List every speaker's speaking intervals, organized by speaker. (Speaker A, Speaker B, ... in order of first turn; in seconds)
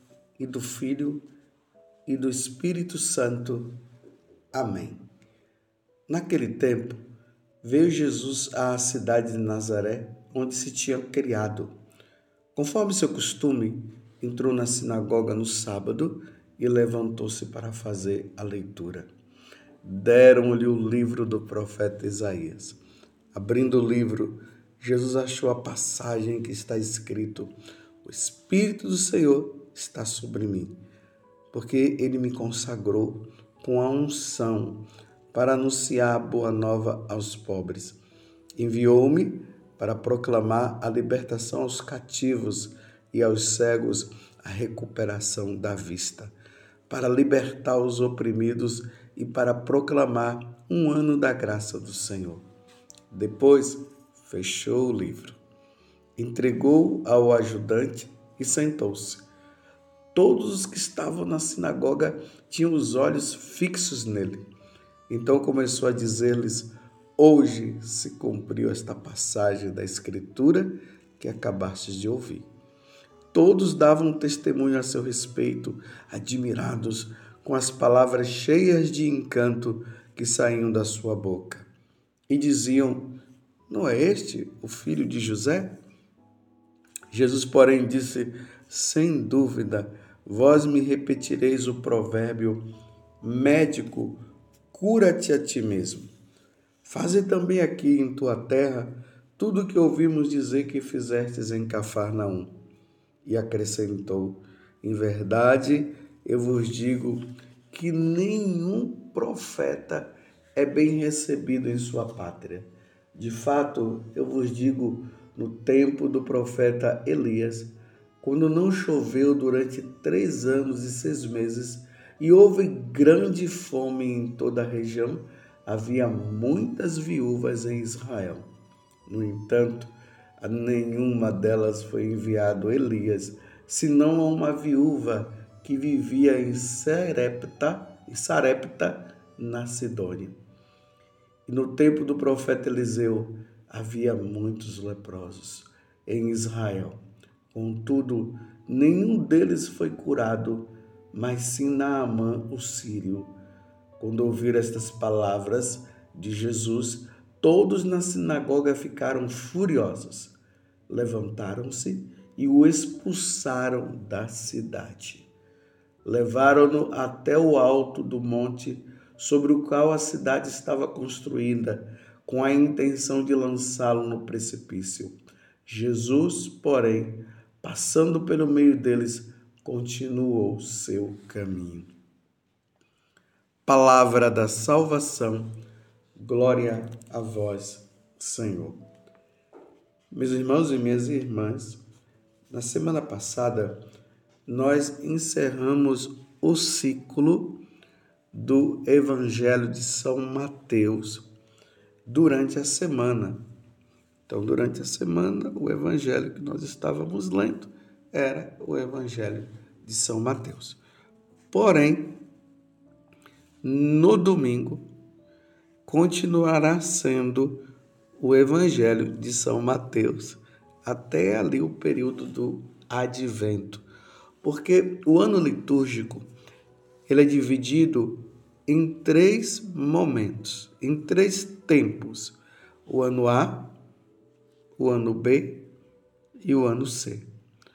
Speaker A: 0.4-1.2, 2.1-3.8, 4.5-5.1, 6.1-7.0, 7.6-11.7, 12.5-19.1, 19.8-22.8, 23.3-27.5, 28.0-30.8, 31.5-38.0, 38.6-46.3, 46.9-52.4, 53.1-55.4, 56.2-59.2, 60.1-64.4, 65.1-72.5, 73.3-81.7, 82.3-83.1, 83.7-85.7, 87.1-92.6, 93.2-96.1, 96.8-102.5, 103.2-128.4, 129.1-140.3, 141.5-147.0, 147.5-153.3, 154.0-160.3, 160.9-165.3, 166.0-175.1, 175.7-181.9, 183.7-185.5, 186.2-188.8, 190.1-191.8, 192.5-193.8, 194.5-197.6, 198.3-201.2, 202.1-203.4, 204.3-210.8, 211.5-212.2, 213.6-214.8, 215.8-217.6, 218.2-223.8, 224.4-226.3, 227.1-233.7, 234.8-235.6, 236.4-237.3